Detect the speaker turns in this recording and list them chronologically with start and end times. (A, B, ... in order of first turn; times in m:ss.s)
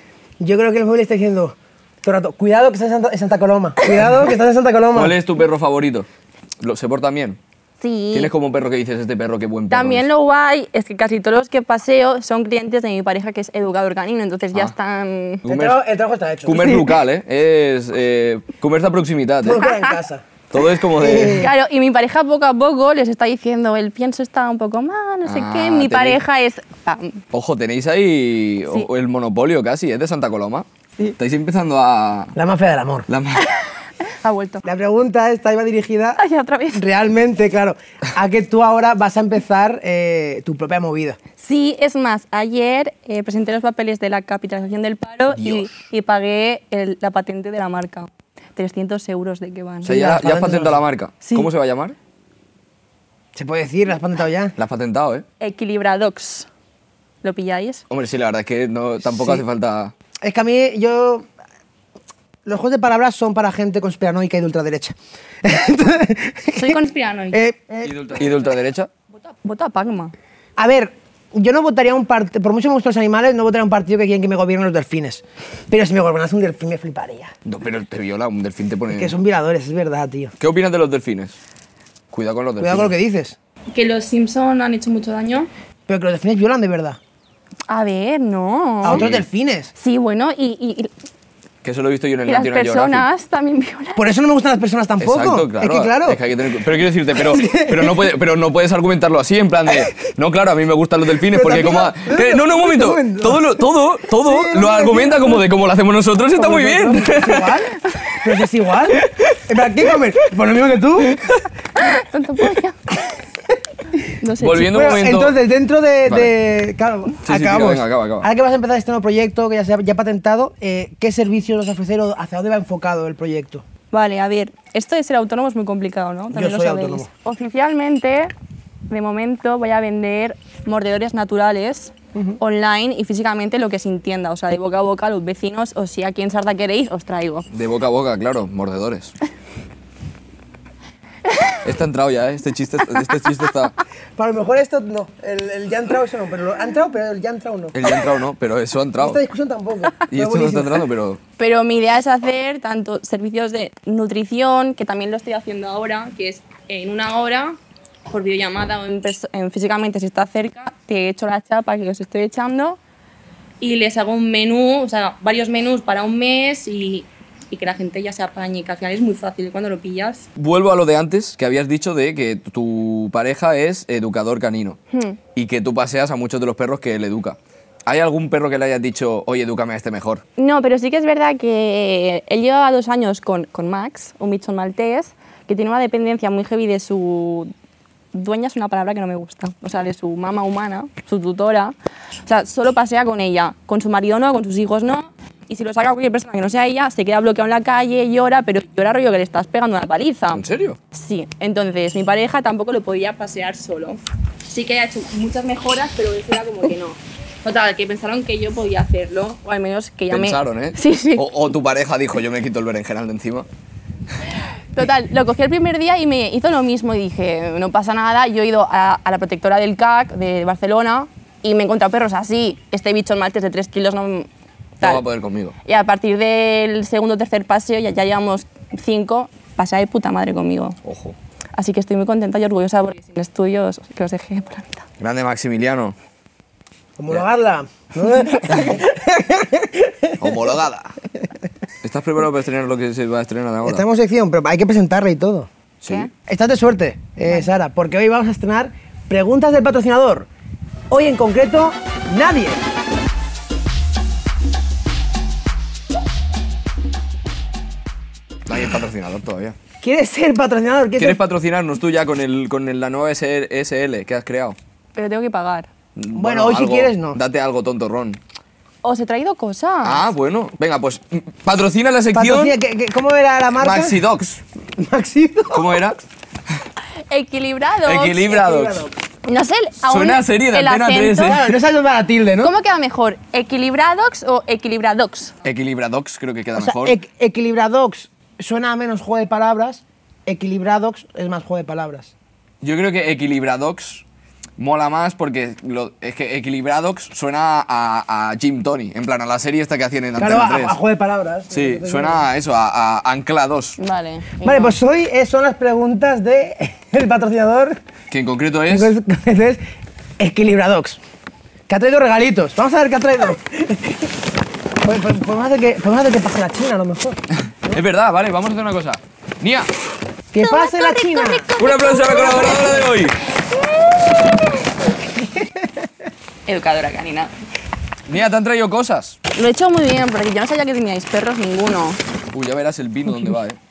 0:00.4-0:05.1 A
0:04.9-0:06.1 B
0:06.6-0:07.4 B
0:07.8-0:08.3 C
0:08.1-0:10.1 B
0:09.7-0:15.4 C
0:15.4-0:15.8 B
0:15.5-0:16.9 A
0:16.4-0:19.6 B
0:19.4-0:20.2 A
0:19.5-0:20.0 C
0:20.5-0:21.5 B
0:20.9-0:21.5 A
0:21.4-0:27.2 C
0:25.2-0:26.2 B
0:27.3-0:32.3 B
0:32.3-0:33.1 A
0:33.1-0:33.5 B
0:34.0-0:34.6 C
0:34.6-0:36.2 A
0:36.2-0:36.8 C
0:36.7-0:41.2 A
0:41.4-0:50.0 C
0:45.3-0:45.7 B
0:49.8-0:52.0 B
0:49.8-0:50.8 A
0:51.2-0:51.5 C
0:53.3-0:54.5 A
0:54.6-0:55.2 B
0:55.4-0:56.5 C
0:57.2-0:57.8 C
0:57.9-0:59.9 B
1:00.2-1:01.3 A
1:02.4-1:07.9 A
1:06.6-1:07.4 C
1:07.8-1:08.9 B
1:09.2-1:10.1 C
1:10.6-1:17.3 A
1:17.4-1:19.1 B
1:18.9-1:20.3 A
1:20.4-1:21.4 B
1:22.1-1:22.9 B
1:22.6-1:23.4 A
1:23.7-1:25.5 C
1:25.9-1:27.0 A
1:27.7-1:29.0 C
1:28.8-1:29.7 A
1:28.9-1:29.2 B
1:29.8-1:30.9 C
1:31.6-1:33.1 B
1:32.3-1:34.0 C
1:34.0-1:36.2 A
1:35.0-1:47.5 B
1:37.1-1:38.0 A
1:41.3-1:43.6 A
1:44.2-1:45.4 A
1:46.3-1:51.4 A
1:51.8-1:52.8 C
1:54.2-1:55.0 C
1:54.4-1:55.4 B
1:54.6-2:03.6 A
1:56.1-1:56.3 B
1:57.2-1:58.3 B
2:03.9-2:08.3 C
2:06.3-2:07.1 A
2:08.9-2:17.5 C
2:17.5-2:19.1 B
2:21.6-2:23.7 B
2:24.2-2:27.8 A
2:27.7-2:29.2 B
2:29.0-2:30.8 A
2:30.1-2:31.2 B
2:31.4-2:37.6 C
2:38.1-2:42.8 C
2:43.6-2:50.3 C
2:50.4-2:54.8 B
2:54.9-2:55.2 C
2:55.3-3:00.2 B
3:00.4-3:07.5 C
3:08.1-3:11.7 C
3:12.2-3:31.2 C
3:20.3-3:20.8 B
3:30.1-3:33.5 B
3:34.7-3:44.3 C
3:44.8-3:45.5 B
3:45.6-3:50.8 C
3:50.8-3:51.2 B
3:51.5-3:54.8 C
3:55.0-3:56.0 B
3:57.0-4:00.5 A
4:00.2-4:01.0 B
4:01.8-4:03.8 B
4:03.6-4:05.5 A
4:05.8-4:06.1 B
4:06.2-4:10.3 A
4:10.9-4:12.6 A
4:18.5-4:19.6 B
4:19.8-4:21.2 A
4:21.0-4:24.6 B
4:24.9-4:25.7 C
4:25.9-4:28.2 B
4:26.1-4:27.2 A
4:28.8-4:30.0 C
4:29.8-4:32.6 B
4:32.1-4:34.0 A
4:33.6-4:34.4 B
4:34.8-4:35.8 A
4:35.5-4:36.0 B
4:37.1-4:38.2 C
4:37.8-4:38.9 B
4:38.2-4:38.9 A
4:39.2-4:41.4 C
4:39.8-4:41.4 B
4:41.2-4:42.5 A
4:42.4-4:45.3 C
4:45.4-4:47.0 B
4:46.6-4:52.1 A
4:52.6-4:54.0 B
4:54.6-5:00.8 B
5:00.2-5:02.2 A
5:01.5-5:03.8 B
5:03.8-5:04.8 C
5:04.4-5:07.8 A
5:08.1-5:08.9 B
5:08.7-5:09.6 A
5:10.2-5:11.0 A
5:11.7-5:14.1 A
5:14.8-5:17.8 A
5:17.4-5:19.7 B
5:20.3-5:21.5 A
5:20.4-5:22.9 C
5:21.6-5:23.2 B
5:25.2-5:25.9 A
5:26.4-5:27.3 C
5:28.1-5:29.2 B
5:29.4-5:32.0 C
5:32.3-5:33.6 B